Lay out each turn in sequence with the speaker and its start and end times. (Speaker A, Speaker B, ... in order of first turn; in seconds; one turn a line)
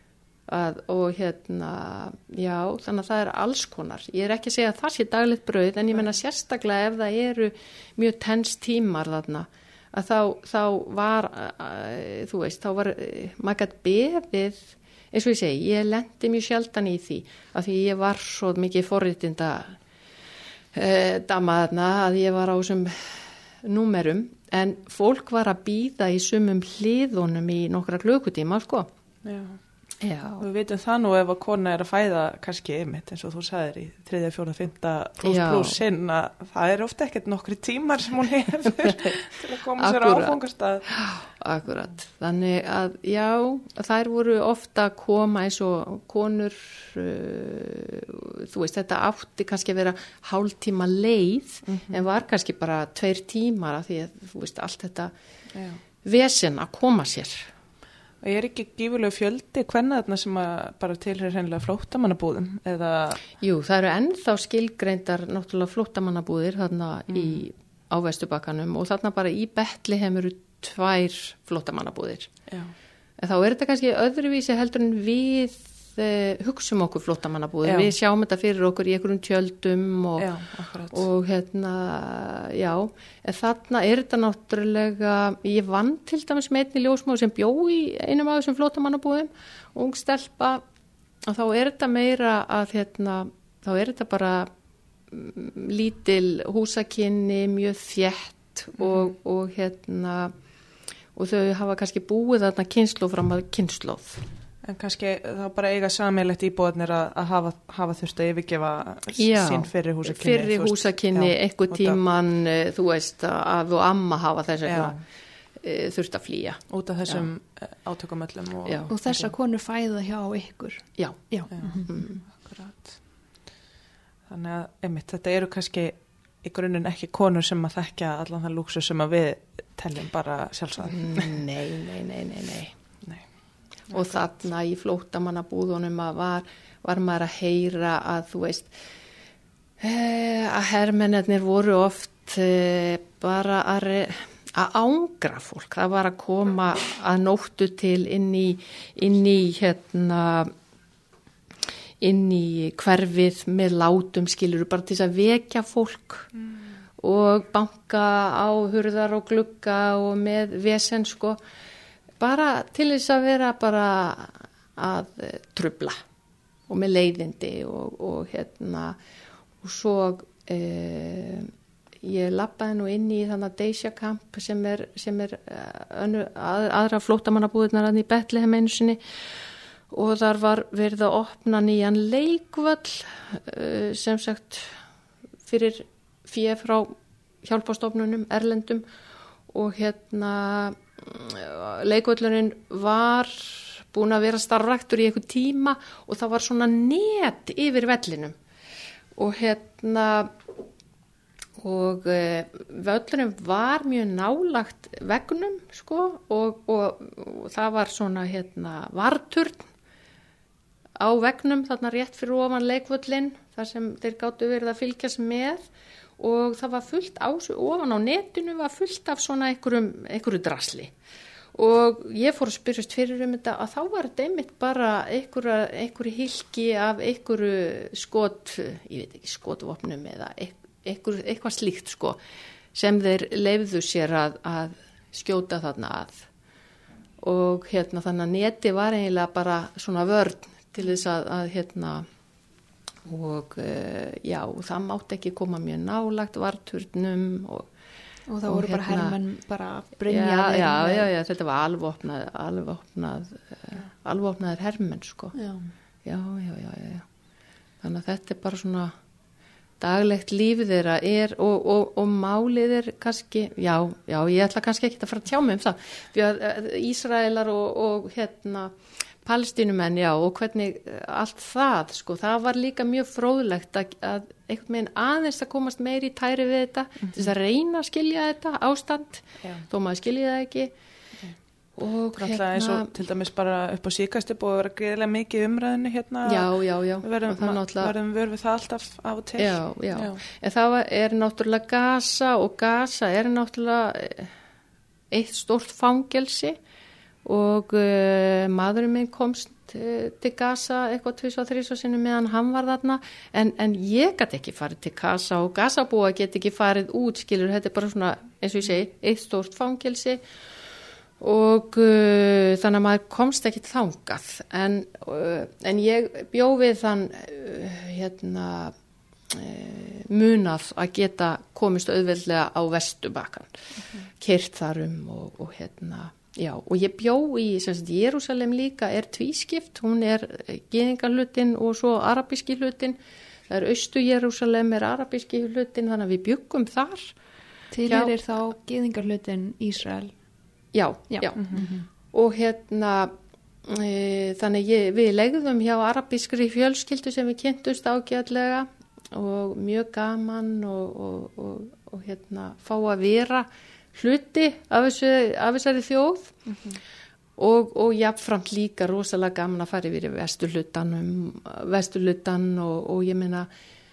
Speaker A: 0.5-19.8
Speaker A: 20.7-28.9
Speaker B: 29.2-29.6
Speaker A: 30.0-30.5
Speaker B: 30.4-40.9
Speaker A: 35.2-35.8
Speaker A: 38.8-55.1
Speaker B: 51.7-52.0
Speaker B: 55.5-55.8
Speaker A: 56.0-57.5
Speaker B: 58.2-63.2
Speaker A: 63.4-72.3
Speaker B: 67.1-67.4
Speaker B: 72.5-72.7
Speaker A: 73.2-80.4
Speaker B: 77.6-77.9
Speaker B: 80.2-81.0
Speaker A: 80.9-90.6
Speaker A: 91.3-94.5
Speaker A: 95.1-100.3
Speaker B: 98.8-99.1
Speaker A: 101.2-104.2
Speaker B: 104.6-112.0
Speaker A: 109.2-115.0
Speaker B: 114.7-115.0
Speaker A: 115.6-117.3
Speaker B: 116.7-119.3
Speaker A: 118.7-118.9
Speaker C: 118.9-122.0
Speaker A: 121.0-122.2
Speaker B: 121.5-123.0
Speaker B: 124.3-131.4
Speaker A: 130.8-132.7
Speaker A: 133.9-138.7
Speaker A: 139.8-150.5
Speaker A: 152.0-156.3
Speaker A: 157.0-161.4
Speaker A: 162.2-166.0
Speaker A: 166.7-169.0
Speaker A: 169.6-171.5
Speaker A: 172.0-179.0
Speaker A: 179.9-184.8
Speaker A: 185.5-188.8
Speaker A: 189.5-198.4
Speaker A: 199.2-200.3
Speaker A: 201.6-209.7
Speaker A: 211.0-215.6
Speaker A: 216.2-220.9
Speaker A: 221.6-232.2
Speaker A: 232.7-236.3
Speaker A: 237.2-242.1
Speaker A: 243.1-247.7
Speaker C: 248.3-251.1
Speaker A: 248.4-249.2
Speaker A: 250.1-255.4
Speaker C: 255.3-255.7
Speaker A: 256.1-257.1
Speaker A: 257.8-258.9
Speaker A: 259.8-280.7
Speaker A: 281.8-282.9
Speaker B: 282.2-290.2
Speaker A: 286.2-287.9
Speaker A: 289.4-294.3
Speaker A: 295.1-296.6
Speaker A: 297.2-310.2
Speaker A: 311.2-318.7
Speaker A: 319.3-323.6
Speaker A: 324.2-333.0
Speaker A: 333.5-337.1
Speaker C: 337.7-340.1
Speaker A: 337.9-338.2
Speaker A: 340.7-343.1
Speaker C: 341.1-341.8
Speaker A: 343.6-356.4
Speaker A: 357.4-363.5